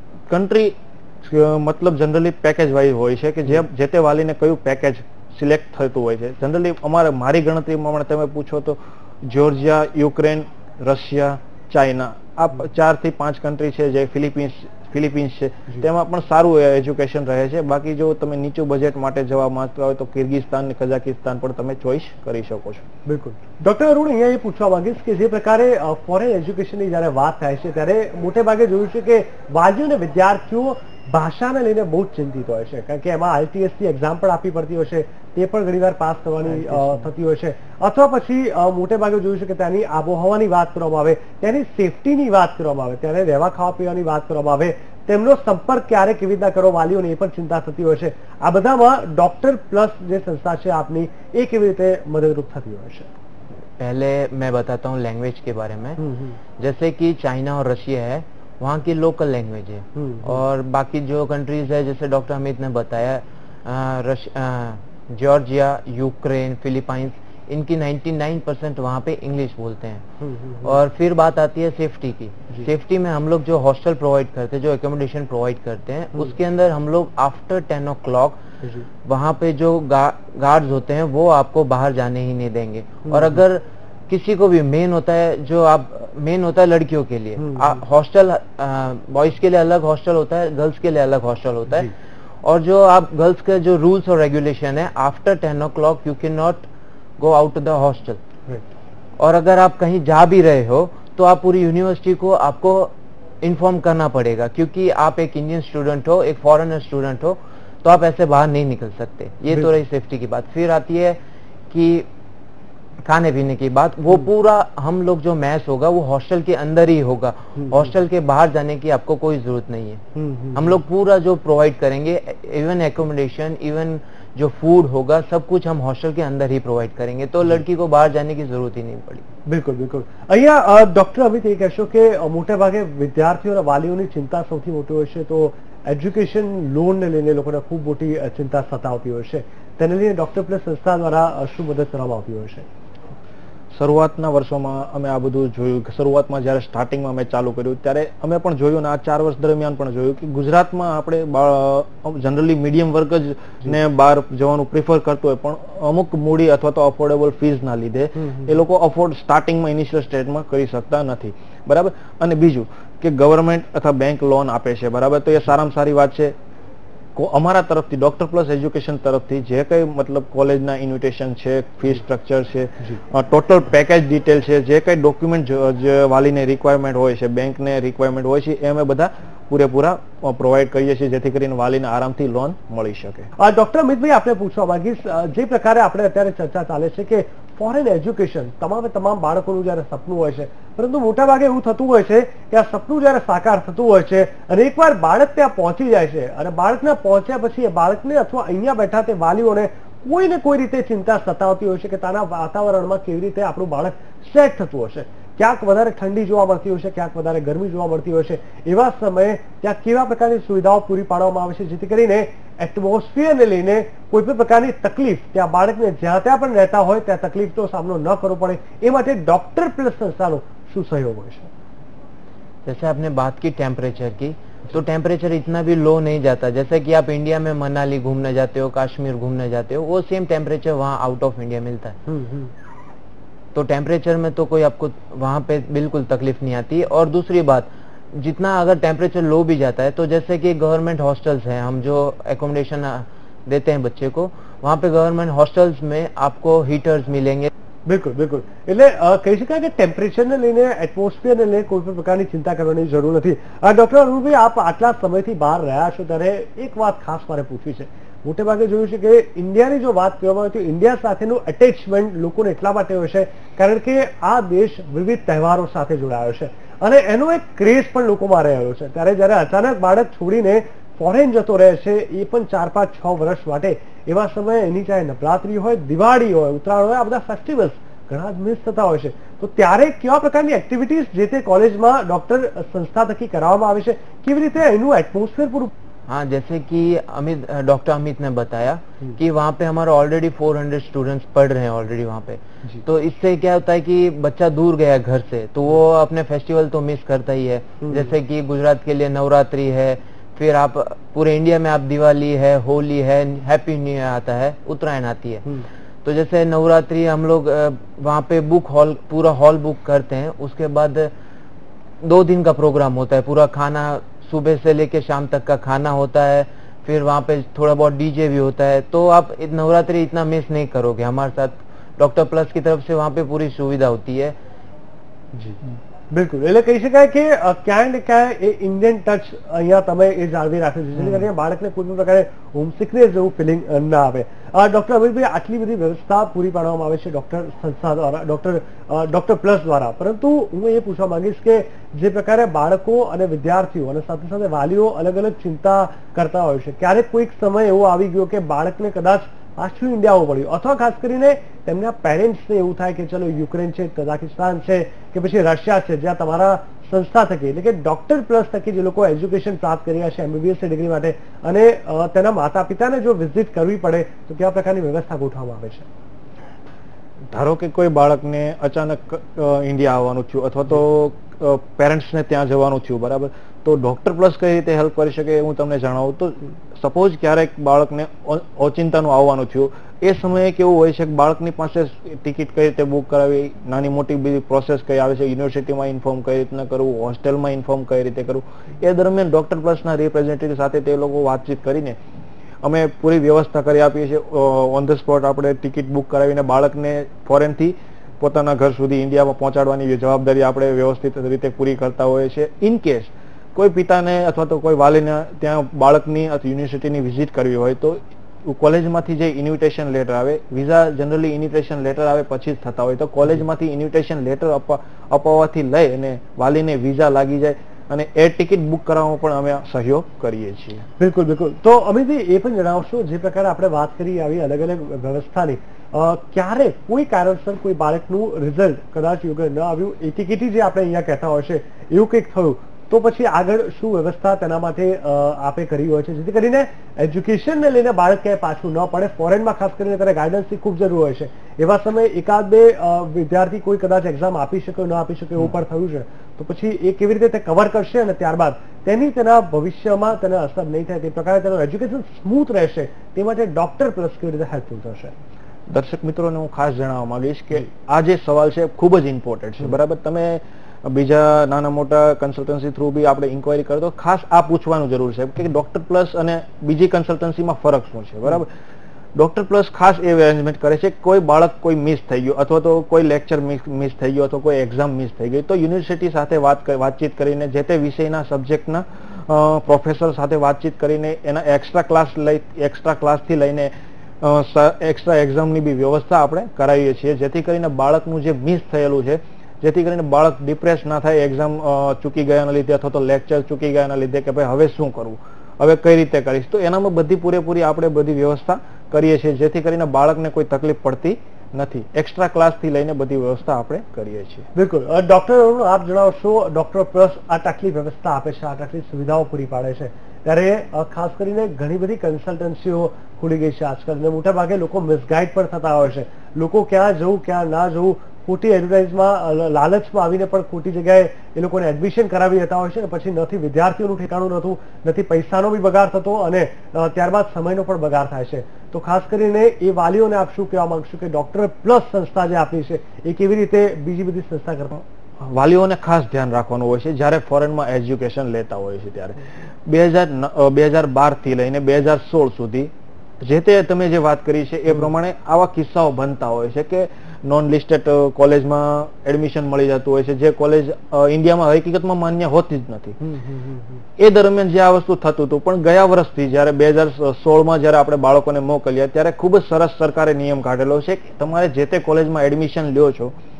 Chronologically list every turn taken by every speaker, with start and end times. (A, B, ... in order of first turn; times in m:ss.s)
0:00.3-0:22.8 A
0:23.1-0:53.1 B
0:53.8-0:56.0 C
0:56.0-0:56.4 B
0:56.6-1:10.1 C
1:00.0-1:00.4 B
1:10.2-1:10.7 B
1:10.6-1:18.4 C
1:19.0-1:31.9 C
1:23.0-1:23.4 B
1:27.4-1:27.8 B
1:32.4-1:36.6 C
1:37.2-1:38.2 C
1:39.2-1:51.2 C
1:51.7-1:52.1 C
1:53.0-2:00.0 C
1:57.6-1:57.8 B
2:00.2-2:00.8 B
2:00.6-2:09.3 C
2:09.5-2:22.7 B
2:23.7-2:46.4 A
2:38.2-2:38.5 B
2:47.2-3:03.3 A
3:03.4-3:41.5 B
3:42.7-3:52.0 C
3:52.1-3:52.5 B
3:53.5-4:07.5 C
4:07.9-4:45.7 B
4:46.1-5:05.5 C
4:57.8-4:58.1 B
5:06.0-5:11.1 C
5:12.0-5:24.4 C
5:26.1-6:05.9 B
6:07.3-6:32.0 A
6:32.6-7:00.8 A
7:01.0-7:35.1 B
7:35.7-7:48.5 A
7:49.2-8:24.5 A
8:24.6-8:54.7 B
8:54.8-9:13.0 A
9:13.0-9:13.8 B
9:14.0-9:23.1 A